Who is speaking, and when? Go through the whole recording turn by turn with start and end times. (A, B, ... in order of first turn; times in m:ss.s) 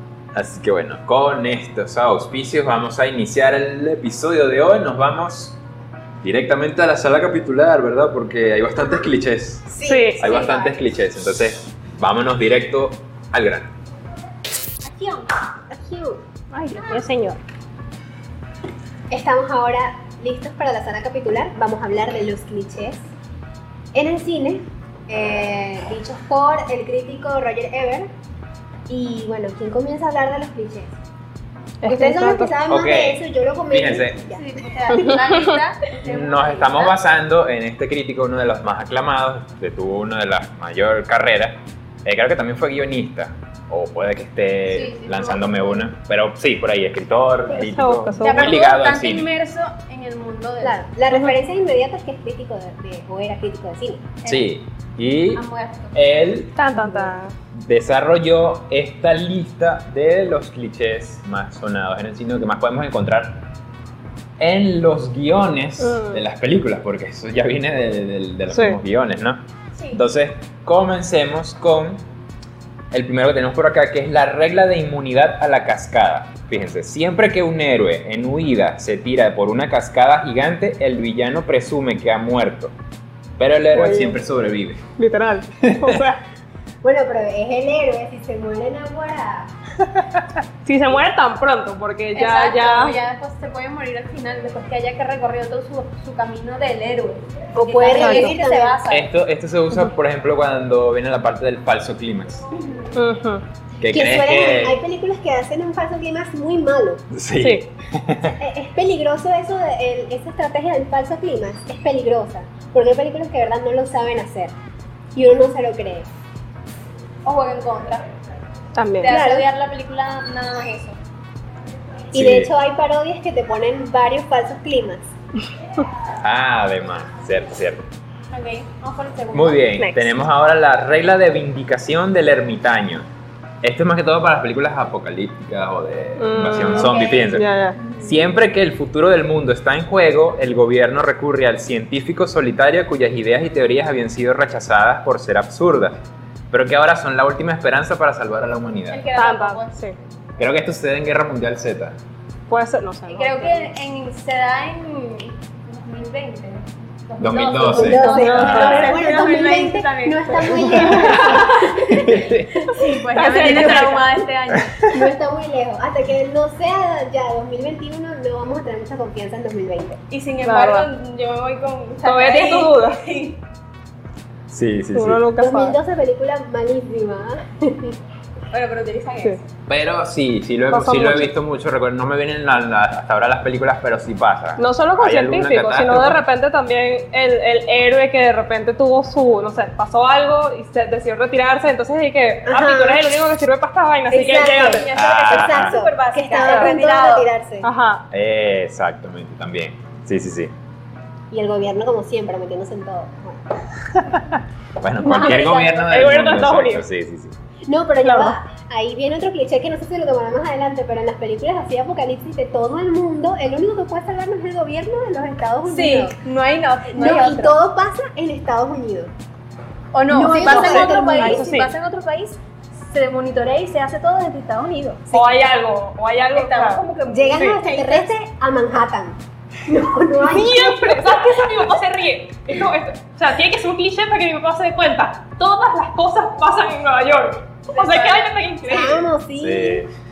0:00.3-0:05.6 A
0:06.2-0:09.7 A
0:09.7-0:10.7 B
0:09.8-0:10.2 C
0:10.2-0:10.8 D
0:10.2-0:13.7 A
0:14.8-0:15.3 D
0:15.7-0:16.2 B
0:16.5-0:17.4 C
0:19.1-0:23.1 B
0:23.9-0:28.1 B
0:28.9-0:31.0 B
0:31.8-0:32.5 C
0:31.8-0:35.0 B
0:32.7-0:34.2 A
0:34.3-0:37.0 D
0:34.9-0:35.4 C
0:36.0-0:49.3 A
0:44.7-0:45.8 D
0:47.5-0:48.6 C
0:48.2-0:50.8 D
0:50.6-0:54.1 B
0:54.2-0:54.5 D
0:54.3-0:56.6 A
0:55.3-0:56.0 D
0:56.6-0:57.3 C
0:57.6-1:03.4 A
1:04.4-1:12.0 A
1:05.8-1:06.2 C
1:08.5-1:08.8 C
1:09.8-1:10.0 D
1:12.9-1:22.7 A
1:23.4-1:24.8 A
1:23.7-1:24.2 C
1:25.0-1:26.2 C
1:25.6-1:26.1 A
1:26.8-1:29.5 B
1:30.6-1:33.0 C
1:32.1-1:39.1 D
1:37.6-1:38.8 B
1:38.0-1:38.4 C
1:38.9-1:42.4 A
1:43.0-1:43.4 C
1:43.8-1:44.8 A
1:43.9-1:47.0 B
1:47.1-1:48.4 A
1:47.4-1:47.6 C
1:48.4-1:54.5 B
1:55.2-1:56.1 B
1:57.2-1:58.1 D
1:58.8-1:59.1 C
1:59.0-2:01.0 D
1:59.0-1:59.5 B
2:02.1-2:05.1 B
2:02.1-2:02.5 A
2:06.2-2:07.8 A
2:08.3-2:09.7 D
2:09.3-2:13.1 A
2:09.8-2:10.2 C
2:13.6-2:26.0 A
2:16.2-2:17.8 C
2:16.7-2:17.4 D
2:26.5-2:29.0 A
2:28.9-2:29.8 D
2:29.2-2:30.0 C
2:30.4-2:32.0 A
2:32.5-2:33.7 C
2:33.1-2:40.9 D
2:37.2-2:38.8 A
2:37.7-2:43.9 B
2:38.1-2:39.3 C
2:40.5-2:41.4 C
2:40.8-2:42.7 A
2:42.7-2:44.9 D
2:43.1-2:44.2 C
2:44.9-2:50.0 B
2:50.1-2:53.4 D
2:50.4-2:50.9 C
2:52.0-2:53.0 C
2:54.5-2:55.2 A
2:54.9-2:55.8 C
2:55.4-2:58.0 B
2:58.5-2:59.4 D
2:59.7-3:06.2 A
3:00.7-3:01.3 C
3:04.6-3:14.9 C
3:12.5-3:13.0 B
3:14.1-3:17.3 D
3:14.1-3:17.7 B
3:15.0-3:15.8 A
3:16.4-3:16.8 C
3:17.6-3:18.0 C
3:18.1-3:20.5 A
3:21.3-3:23.6 B
3:24.0-3:27.4 A
3:25.0-3:25.9 D
3:25.1-3:26.8 C
3:27.7-3:36.2 B
3:28.0-3:28.4 C
3:35.7-3:37.6 D
3:36.9-3:39.1 B
3:39.9-3:45.0 D
3:40.1-3:41.5 B
3:40.4-3:41.7 C
3:45.1-3:45.4 B
3:45.1-3:46.8 C
3:46.3-3:48.1 D
3:47.1-3:51.3 B
3:50.2-3:59.1 C
3:57.7-3:58.9 D
3:58.6-3:59.8 B
3:59.4-3:59.9 A